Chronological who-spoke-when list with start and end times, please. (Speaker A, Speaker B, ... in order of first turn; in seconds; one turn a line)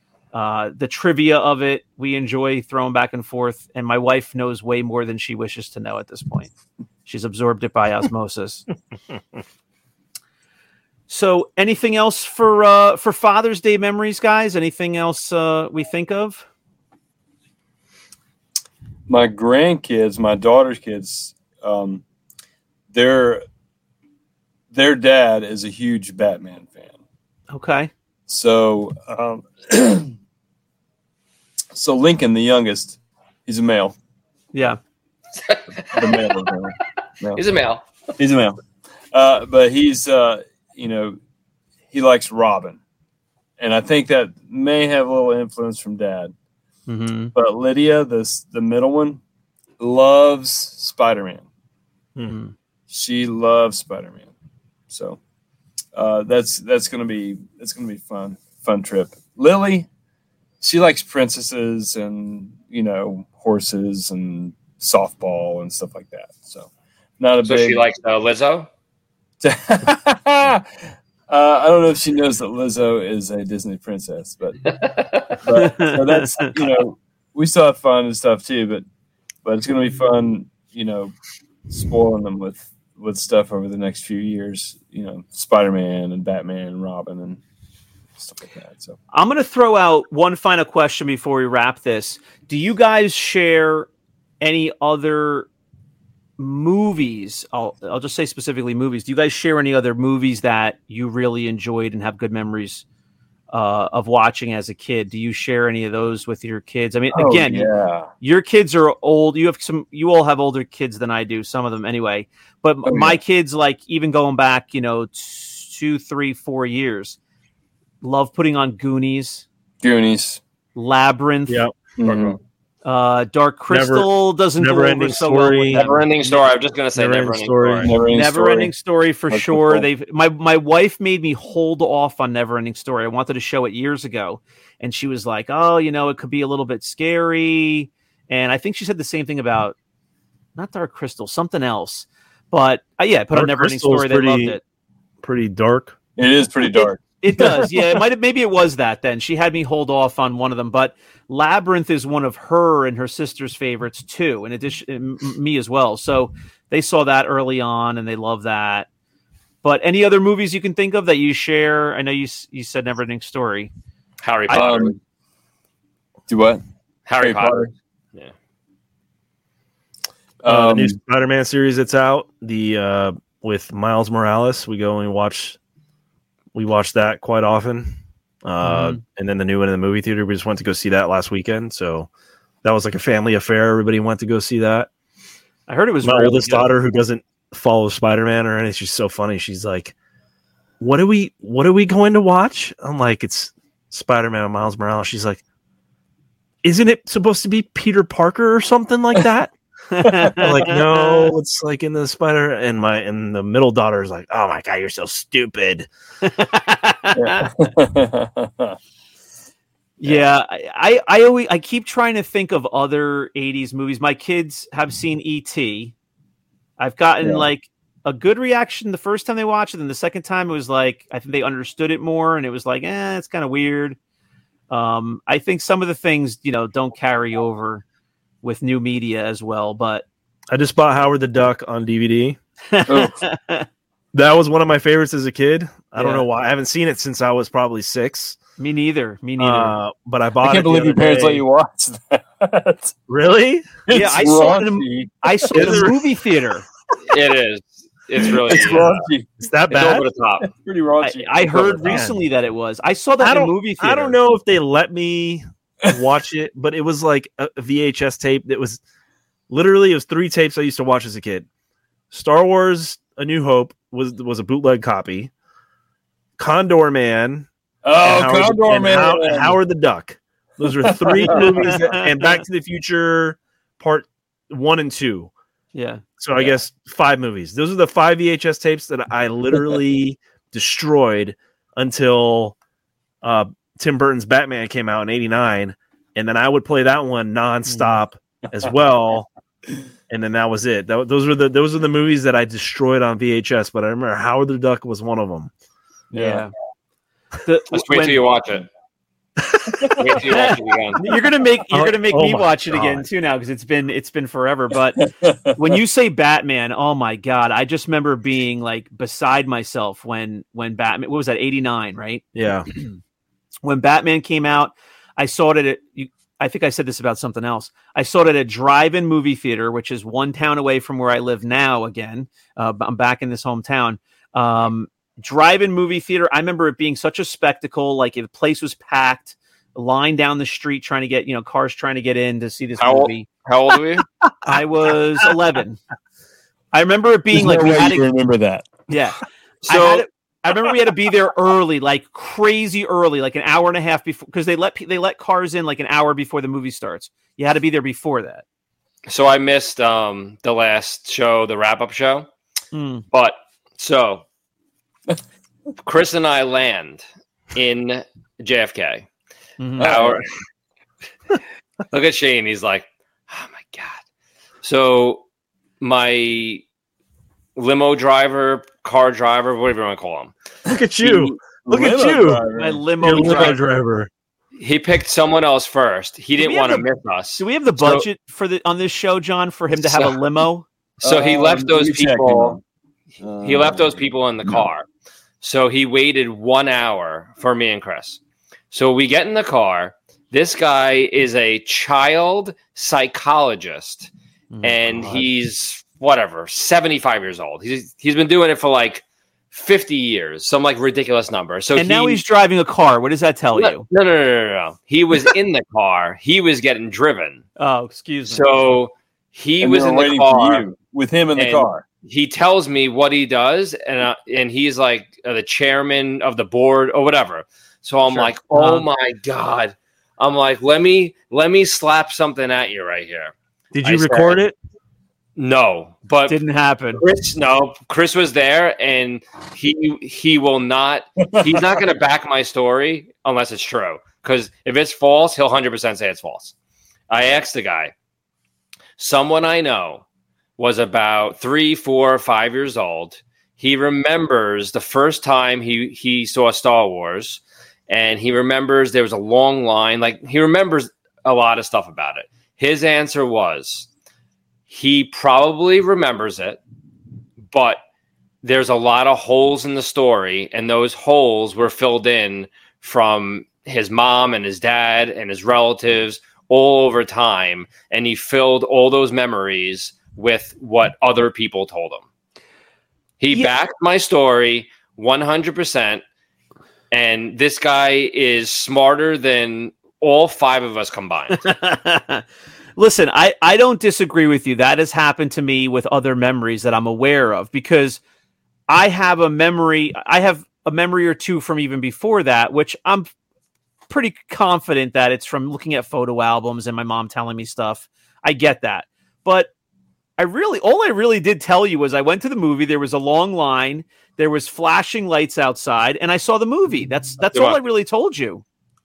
Speaker A: 0.3-6.5
Speaker A: 7.0-8.7
Speaker A: 11.1-16.5
Speaker B: 19.1-22.0
Speaker B: 22.9-23.4
Speaker B: 24.7-26.9
Speaker A: 27.5-27.9
Speaker B: 28.3-30.1
Speaker B: 31.7-34.0
Speaker A: 34.5-34.8
Speaker C: 35.4-36.4
Speaker B: 35.9-37.4
Speaker C: 37.4-37.9
Speaker B: 38.2-38.6
Speaker B: 39.1-41.2
Speaker B: 41.9-42.8
Speaker B: 43.6-46.3
Speaker A: 46.9-47.3
Speaker B: 47.4-49.2
Speaker B: 49.8-51.5
Speaker A: 52.3-52.5
Speaker B: 52.9-54.3
Speaker B: 54.9-55.2
Speaker B: 56.0-59.9
Speaker B: 60.6-67.8
Speaker C: 67.5-68.7
Speaker B: 69.4-70.7
Speaker B: 71.3-74.7
Speaker C: 74.7-75.4
Speaker B: 75.4-78.8
Speaker A: 75.6-76.4
Speaker B: 79.5-81.1
Speaker B: 81.7-87.4
Speaker B: 88.2-89.0
Speaker A: 89.1-93.9
Speaker A: 94.4-95.5
Speaker A: 96.4-102.8
Speaker A: 103.5-117.2
Speaker B: 107.1-108.1
Speaker B: 112.9-113.2
Speaker A: 118.0-119.5
Speaker B: 119.8-120.4
Speaker A: 120.8-121.7
Speaker D: 121.5-121.8
Speaker B: 122.0-122.4
Speaker C: 122.0-122.4
Speaker A: 122.8-126.4
Speaker D: 123.7-125.9
Speaker C: 125.7-127.9
Speaker D: 127.0-128.0
Speaker B: 127.8-128.7
Speaker A: 128.1-139.8
Speaker B: 129.3-129.9
Speaker A: 140.6-144.6
Speaker D: 143.3-144.6
Speaker D: 145.2-146.0
Speaker B: 146.2-147.9
Speaker A: 146.7-158.9
Speaker A: 159.6-163.7
Speaker C: 164.2-165.0
Speaker A: 164.5-164.8
Speaker B: 164.5-164.9
Speaker B: 166.3-166.6
Speaker C: 167.1-168.3
Speaker B: 167.2-167.7
Speaker B: 170.4-171.0
Speaker D: 170.5-175.6
Speaker D: 176.5-182.1
Speaker A: 178.6-179.0
Speaker D: 182.6-184.9
Speaker A: 185.7-186.7
Speaker D: 186.0-189.9
Speaker D: 190.8-195.4
Speaker D: 196.6-199.5
Speaker A: 199.9-201.3
Speaker D: 200.4-205.9
Speaker A: 206.2-207.5
Speaker B: 207.1-208.8
Speaker A: 210.0-215.9
Speaker A: 216.8-224.0
Speaker B: 217.2-217.5
Speaker A: 224.7-227.8
Speaker A: 228.4-230.1
Speaker D: 230.5-232.4
Speaker A: 232.7-233.7
Speaker B: 232.8-233.2
Speaker D: 234.1-238.4
Speaker A: 236.0-236.2
Speaker A: 238.6-239.8
Speaker D: 239.4-241.4
Speaker B: 240.4-243.0
Speaker D: 243.1-243.7
Speaker B: 243.9-245.9
Speaker A: 243.9-246.7
Speaker D: 245.5-245.9
Speaker C: 247.1-249.1
Speaker B: 248.2-249.3
Speaker D: 249.4-250.1
Speaker C: 249.7-250.5
Speaker B: 250.4-252.0
Speaker A: 251.0-254.2
Speaker D: 251.8-252.2
Speaker D: 253.2-258.8
Speaker D: 259.5-261.5
Speaker D: 262.1-265.3
Speaker D: 266.4-267.5
Speaker B: 267.8-269.6
Speaker D: 268.0-275.3
Speaker B: 270.6-271.5
Speaker A: 271.3-272.4
Speaker A: 275.7-276.0
Speaker D: 276.2-282.6
Speaker D: 283.2-289.3
Speaker A: 287.7-288.0
Speaker D: 290.1-295.5
Speaker B: 296.1-296.4
Speaker A: 296.1-296.5
Speaker A: 297.4-298.2
Speaker C: 297.7-298.7
Speaker D: 299.4-299.9
Speaker C: 299.9-301.0
Speaker A: 300.3-312.9
Speaker D: 301.7-303.1
Speaker B: 305.2-305.6
Speaker D: 312.4-312.7
Speaker A: 313.6-333.3
Speaker C: 332.8-334.1
Speaker A: 334.4-335.8
Speaker A: 336.7-338.1
Speaker B: 337.3-338.8
Speaker A: 338.9-348.4
Speaker C: 339.6-340.1
Speaker C: 349.1-352.3
Speaker A: 352.7-353.0
Speaker C: 353.1-354.2
Speaker C: 355.8-357.0
Speaker C: 357.6-359.1
Speaker A: 359.6-359.9
Speaker B: 359.8-360.3
Speaker C: 359.8-360.3
Speaker C: 361.9-364.0
Speaker C: 364.6-365.2
Speaker C: 365.8-366.6
Speaker C: 367.6-370.3
Speaker D: 370.7-372.4
Speaker B: 371.0-373.6
Speaker A: 372.5-373.6
Speaker D: 373.0-374.1
Speaker C: 374.6-378.1
Speaker A: 376.4-376.9
Speaker A: 377.4-380.6
Speaker C: 379.8-380.2
Speaker C: 381.0-382.6
Speaker B: 381.0-382.6
Speaker B: 383.2-384.7
Speaker C: 383.4-384.9
Speaker C: 385.4-388.2
Speaker C: 388.7-394.1
Speaker A: 394.5-395.3
Speaker C: 394.6-402.2
Speaker A: 401.8-403.9
Speaker C: 403.6-407.4
Speaker A: 407.6-408.5
Speaker C: 408.3-410.7
Speaker B: 409.6-411.8
Speaker C: 411.4-424.4
Speaker A: 418.1-418.8
Speaker D: 423.7-424.6
Speaker C: 425.4-426.4
Speaker A: 426.3-427.0
Speaker C: 426.9-436.5
Speaker B: 431.4-431.6
Speaker C: 437.1-437.9
Speaker C: 439.0-440.0
Speaker C: 440.6-453.9
Speaker C: 454.7-456.6
Speaker C: 457.5-457.8
Speaker C: 458.4-472.0
Speaker C: 473.2-476.0
Speaker C: 476.9-481.4
Speaker A: 481.3-482.2
Speaker A: 482.8-488.0
Speaker A: 488.7-493.1
Speaker A: 493.9-499.5
Speaker A: 500.2-508.4
Speaker C: 507.3-507.6